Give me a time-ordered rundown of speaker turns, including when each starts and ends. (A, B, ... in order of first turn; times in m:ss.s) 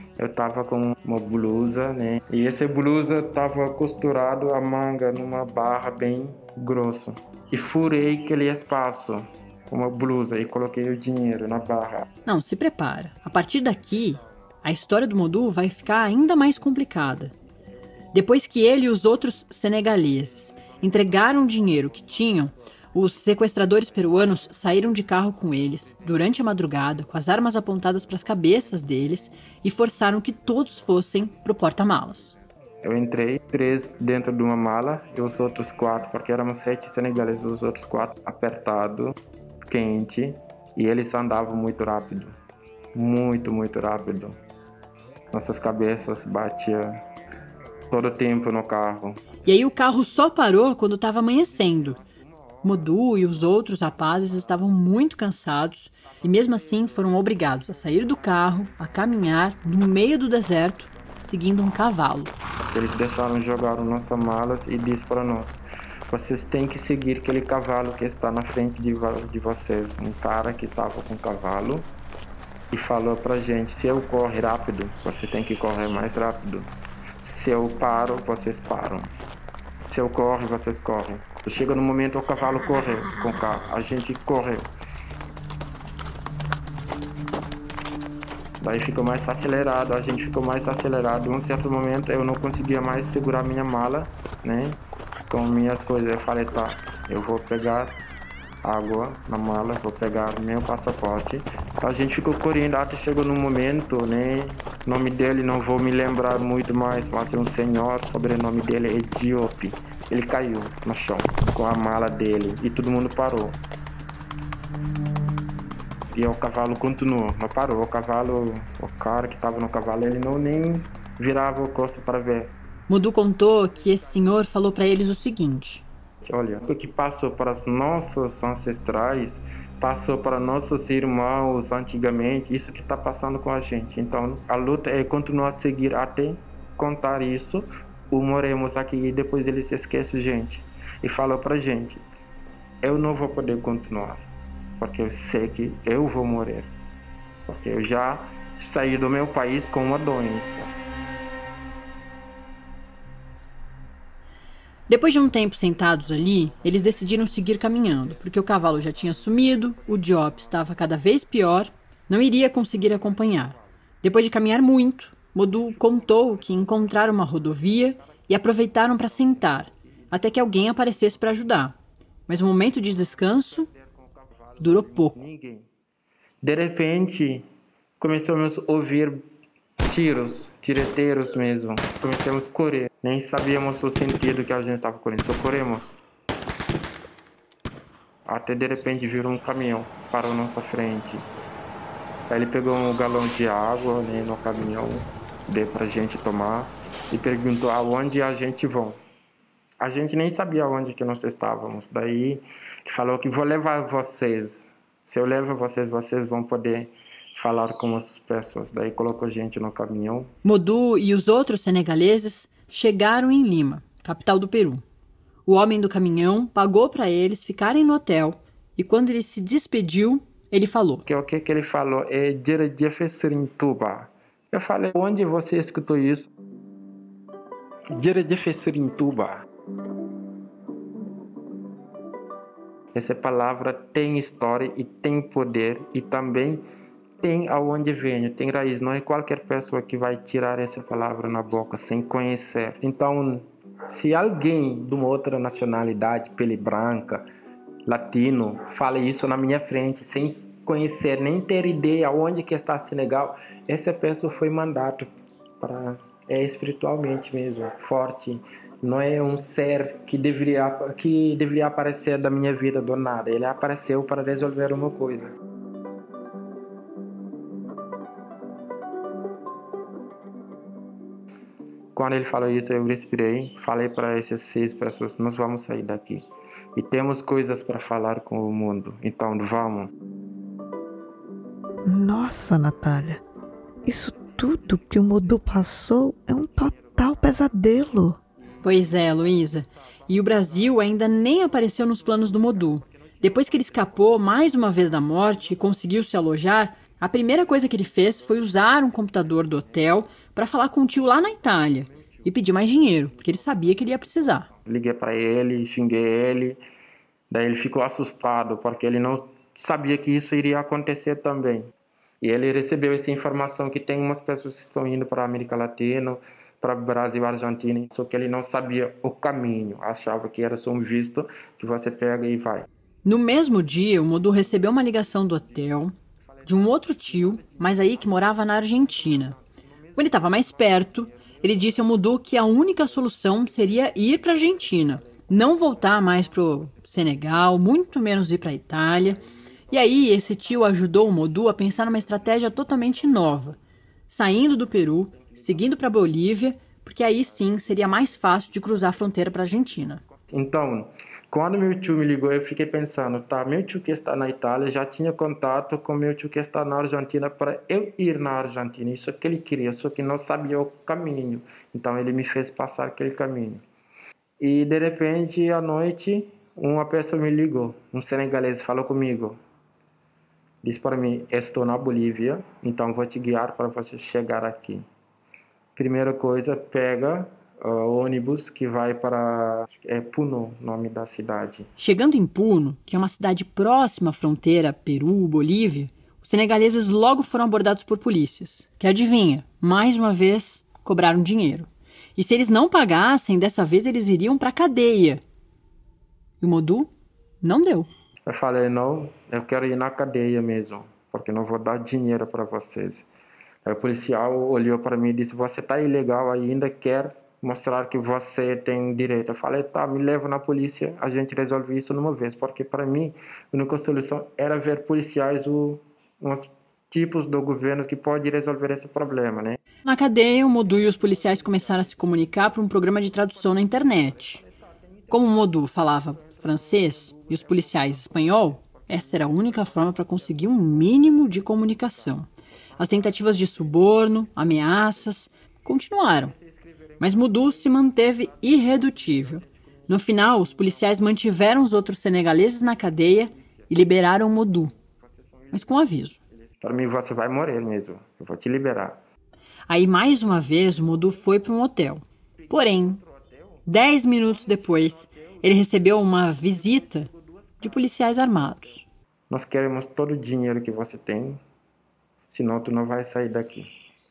0:00.2-0:12.1 A
0:12.3-0:17.3 B
0:18.1-0:32.4 B
0:32.8-0:39.2 A
0:39.7-0:42.3 A
0:43.0-0:44.4 A
0:45.3-0:47.0 A
0:47.9-0:49.2 A
0:49.5-0:52.0 B
0:52.6-1:02.3 B
1:02.7-1:11.9 A
1:12.7-1:16.7 A
1:17.2-1:19.1 A
1:19.9-1:24.7 A
1:28.6-1:34.8 A
1:35.3-1:38.0 A
1:38.6-1:53.6 A
1:56.1-2:02.5 A
2:02.9-2:05.8 B
2:06.3-2:22.0 A
2:22.8-2:24.3 A
2:24.8-2:26.7 A
2:27.5-2:30.7 A
2:34.9-2:51.8 B
2:52.3-2:53.7 B
2:54.6-2:55.2 B
2:55.1-2:55.7 A
2:56.4-2:57.5 A
2:58.0-2:59.2 A
2:59.9-3:06.0 A
3:08.3-3:11.2 A
3:12.3-3:19.0 A
3:19.8-3:30.3 A
3:30.4-3:34.8 B
3:35.5-3:41.0 B
3:41.1-3:46.3 A
3:47.9-3:49.4 A
3:52.9-3:56.6 A
3:57.2-4:07.3 A
4:07.9-4:15.1 A
4:15.6-4:25.3 A
4:32.0-4:36.2 A
4:36.8-4:39.9 A
4:41.8-4:43.2 C
4:43.8-4:48.2 C
4:48.6-5:04.5 B
5:04.7-5:06.6 A
5:07.3-5:11.7 A
5:12.2-5:22.7 A
5:23.0-5:29.4 B
5:30.0-5:43.6 B
5:44.1-5:50.0 B
5:50.3-6:03.6 A
6:04.4-6:09.4 A
6:10.6-6:14.8 A
6:15.8-6:21.7 A
6:21.8-6:35.2 B
6:36.4-6:37.9 B
6:38.3-6:43.0 A
6:43.6-6:59.6 A
6:59.8-7:04.4 B
7:05.1-7:16.4 B
7:17.0-7:24.7 B
7:25.5-7:26.2 B
7:26.6-7:29.0 A
7:29.7-7:33.0 B
7:33.7-7:38.9 B
7:39.3-7:41.4 A
7:42.3-7:43.7 A